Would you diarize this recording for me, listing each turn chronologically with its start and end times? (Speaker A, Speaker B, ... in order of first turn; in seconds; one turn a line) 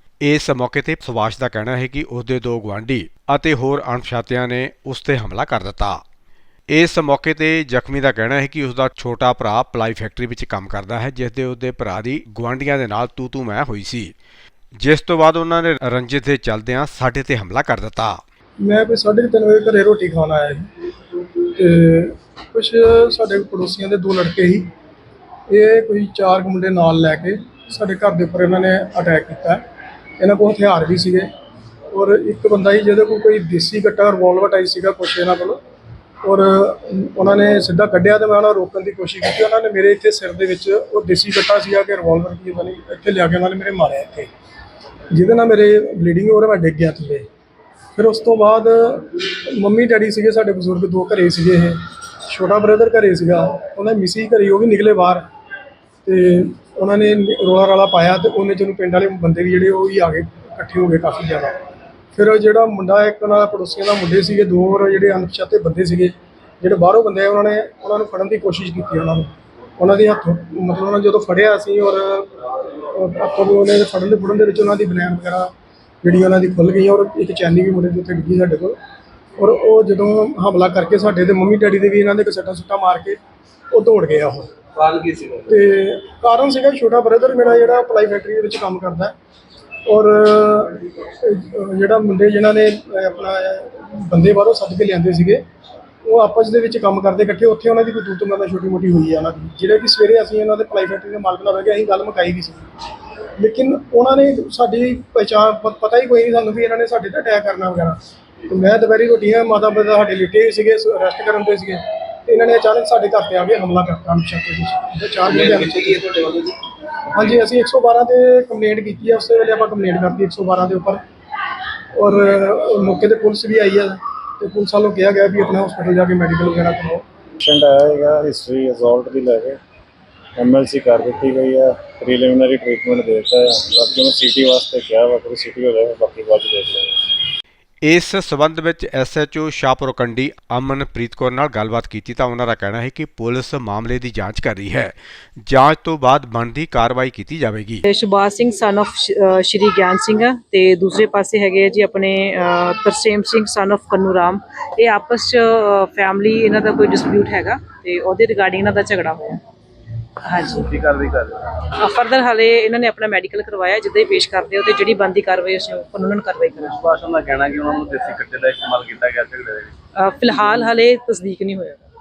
Speaker A: 0.2-6.0
Speaker A: 6.7-14.1
Speaker A: 14.8-18.2
Speaker B: 18.6-20.7
Speaker B: 21.5-24.7
Speaker B: 25.5-29.6
Speaker B: 30.2-31.3
Speaker B: 31.9-35.6
Speaker B: 36.2-44.3
Speaker B: 45.1-47.3
Speaker B: 48.0-55.2
Speaker B: 56.0-61.5
Speaker B: 62.1-75.5
Speaker B: 76.0-78.8
Speaker B: 79.4-83.2
Speaker B: 83.7-84.5
Speaker C: 84.9-85.3
Speaker B: 85.4-89.1
Speaker B: 89.9-95.4
Speaker B: 96.0-102.7
Speaker B: 103.4-116.2
Speaker B: 117.1-121.0
Speaker B: 122.0-127.0
Speaker D: 127.4-129.6
Speaker D: 130.4-136.9
Speaker A: 137.8-147.8
Speaker E: 147.9-159.4
Speaker E: 160.2-160.7
Speaker C: 160.7-161.4
Speaker E: 161.7-166.8
Speaker C: 166.8-169.7
Speaker E: 170.0-171.8